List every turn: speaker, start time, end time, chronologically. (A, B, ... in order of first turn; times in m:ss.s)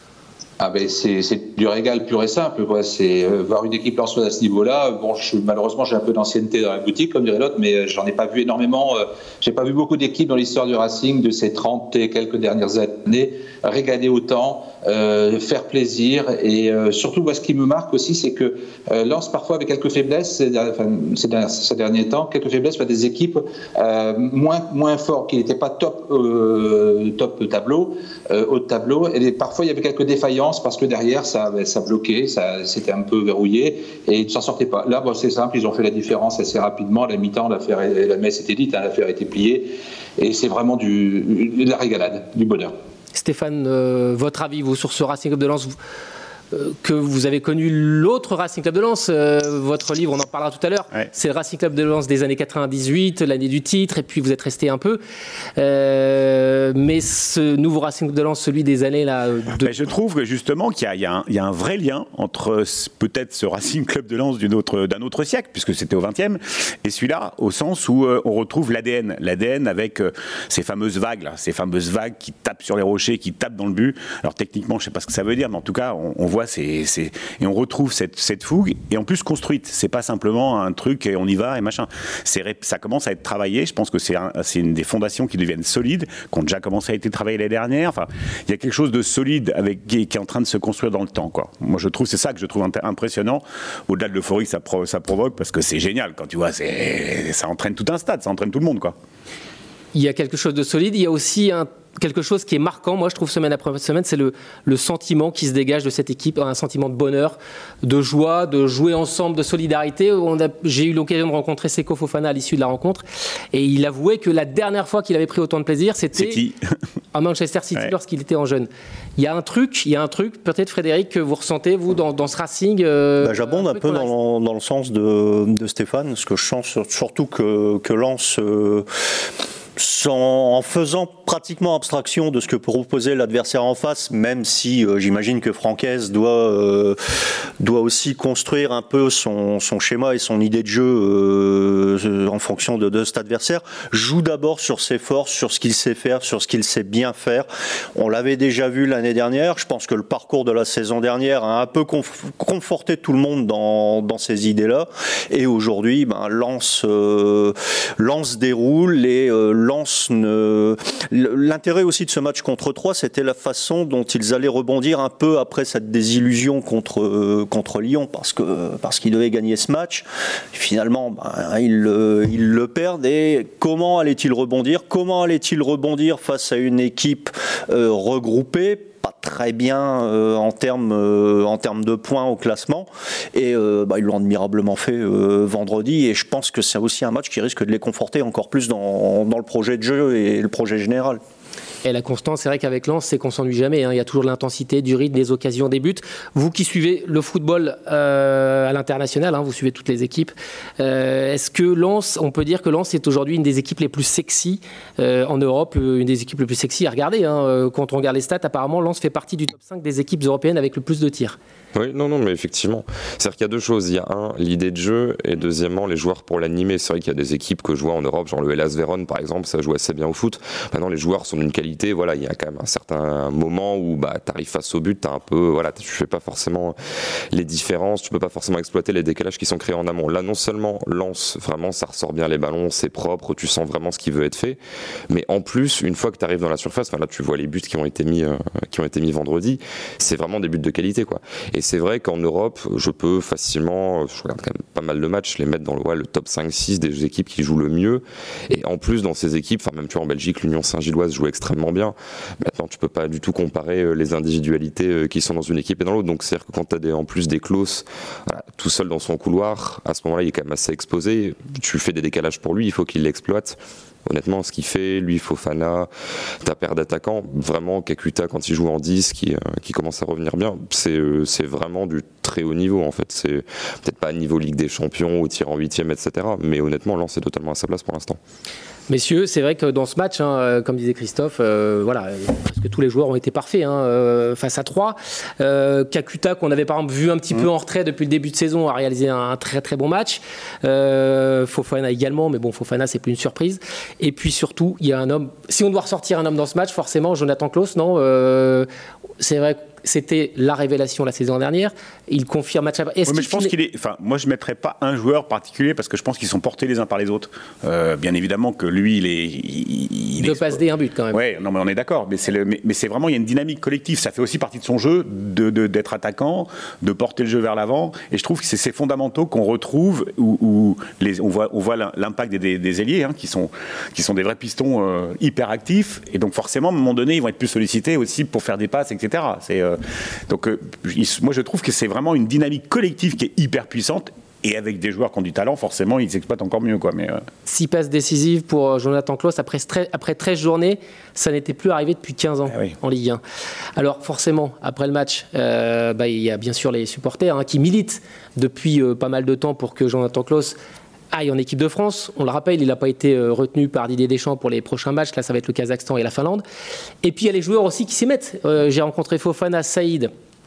0:00.6-0:42.7 A
0:43.1-0:45.7 B
0:46.5-0:55.0 B
0:55.6-0:59.7 B
0:59.6-1:38.9 C
1:39.9-1:56.4 B
1:56.2-1:56.6 C
1:57.1-2:04.1 B
2:03.2-2:08.9 D
2:09.8-2:17.0 D
2:17.6-3:11.2 D
3:11.8-3:31.4 B
3:31.7-3:46.7 E
3:47.3-3:54.6 E
3:55.1-4:25.9 E
4:26.4-4:38.2 E
4:38.9-4:58.7 B
4:59.2-5:03.5 B
5:03.1-5:10.6 C
5:10.2-5:11.2 B
5:11.1-5:29.8 C
5:30.3-5:37.2 C
5:37.4-5:43.2 B
5:43.8-5:50.6 B
5:51.1-5:56.4 B
5:57.0-6:00.1 B